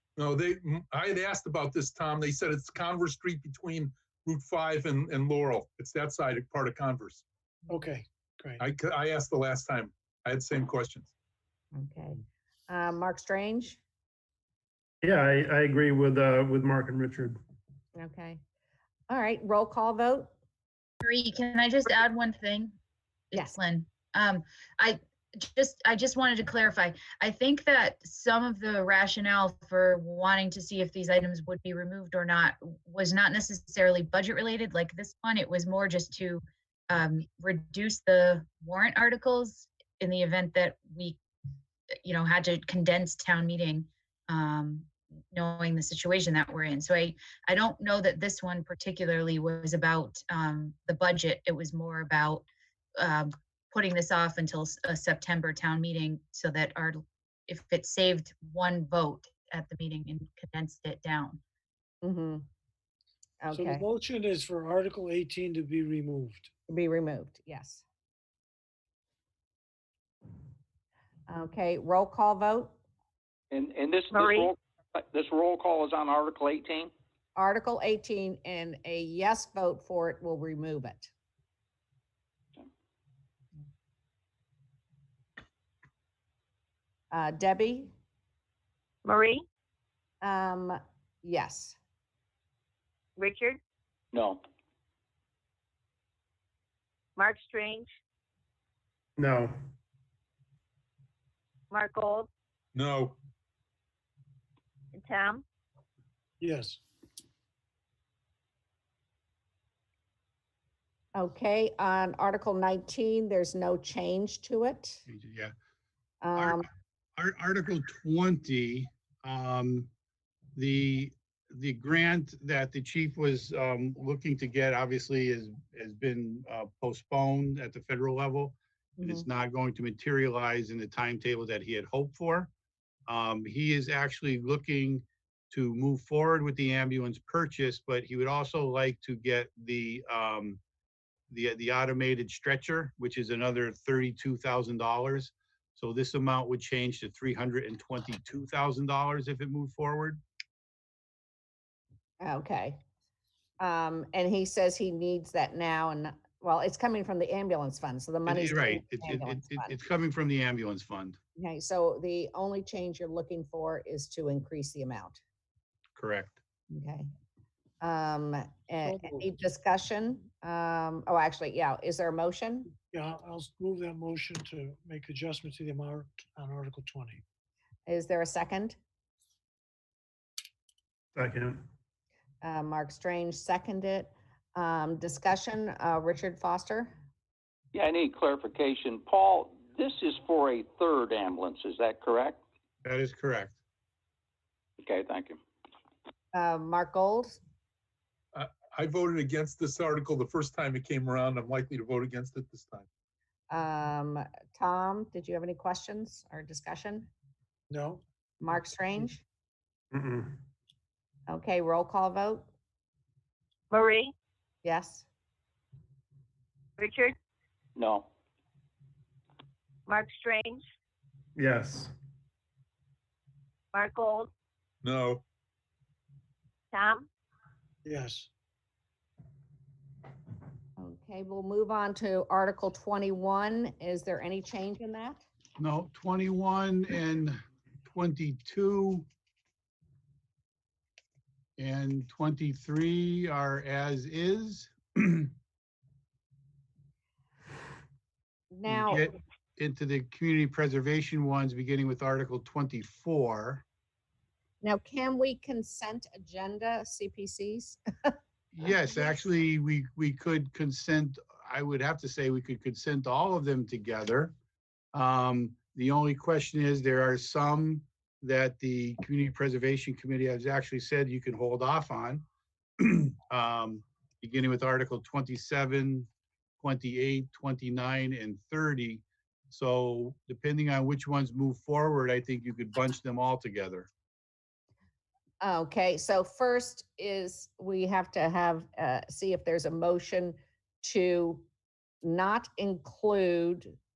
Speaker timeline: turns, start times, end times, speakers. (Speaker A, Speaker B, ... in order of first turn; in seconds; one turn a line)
Speaker A: 0.2-7.2
Speaker B: 7.7-8.6
Speaker A: 8.6-11.1
Speaker C: 11.7-13.8
Speaker D: 15.0-17.4
Speaker C: 17.9-18.4
Speaker C: 19.1-20.3
Speaker E: 21.0-22.7
Speaker E: 23.3-41.2
Speaker E: 42.0-52.4
Speaker E: 53.0-61.4
Speaker C: 62.0-62.4
Speaker C: 63.4-63.8
Speaker B: 63.5-66.5
Speaker C: 66.7-67.8
Speaker C: 71.3-72.7
Speaker F: 73.5-76.9
Speaker G: 74.1-74.5
Speaker C: 77.3-81.1
Speaker C: 87.1-87.9
Speaker G: 89.0-89.4
Speaker C: 90.2-91.8
Speaker G: 93.2-93.6
Speaker F: 94.1-94.4
Speaker G: 97.2-97.9
Speaker D: 99.2-99.5
Speaker G: 101.7-102.3
Speaker A: 102.7-103.2
Speaker G: 104.9-105.4
Speaker B: 106.4-106.8
Speaker C: 111.1-115.0
Speaker H: 115.0-115.5
Speaker C: 116.2-116.6
Speaker H: 116.3-116.6
Speaker H: 117.2-119.9
Speaker H: 120.5-132.5
Speaker C: 129.0-129.2
Speaker H: 133.1-140.6
Speaker H: 141.3-150.2
Speaker C: 152.2-152.8
Speaker C: 153.6-159.7
Speaker H: 158.2-161.2
Speaker C: 161.4-165.2
Speaker H: 165.9-166.4
Speaker C: 166.7-167.1
Speaker C: 167.8-172.7
Speaker B: 168.8-169.3
Speaker B: 172.9-177.2
Speaker C: 177.9-178.8
Speaker D: 181.1-181.6
Speaker C: 182.4-186.9
Speaker F: 187.7-192.4
Speaker H: 192.8-193.5
Speaker F: 194.8-195.4
Speaker C: 196.3-197.4
Speaker A: 198.3-202.8
Speaker C: 203.5-207.1
Speaker B: 207.7-208.0
Speaker C: 208.4-209.2
Speaker D: 209.9-210.3
Speaker C: 211.3-212.5
Speaker G: 213.7-214.1
Speaker C: 214.6-215.0
Speaker G: 216.8-217.2
Speaker F: 217.8-218.1
Speaker G: 219.9-220.6
Speaker D: 221.3-221.9
Speaker G: 223.7-224.3
Speaker A: 224.8-225.2
Speaker G: 226.7-227.1
Speaker B: 227.8-228.3
Speaker C: 230.8-235.2
Speaker H: 235.6-239.1
Speaker H: 241.6-245.3
Speaker C: 248.5-249.1
Speaker H: 248.7-253.6
Speaker C: 254.6-258.1
Speaker H: 258.5-264.3
Speaker C: 258.6-259.1
Speaker H: 264.9-272.2
Speaker H: 272.8-276.1
Speaker H: 276.6-283.9
Speaker C: 285.4-291.5
Speaker C: 292.0-293.7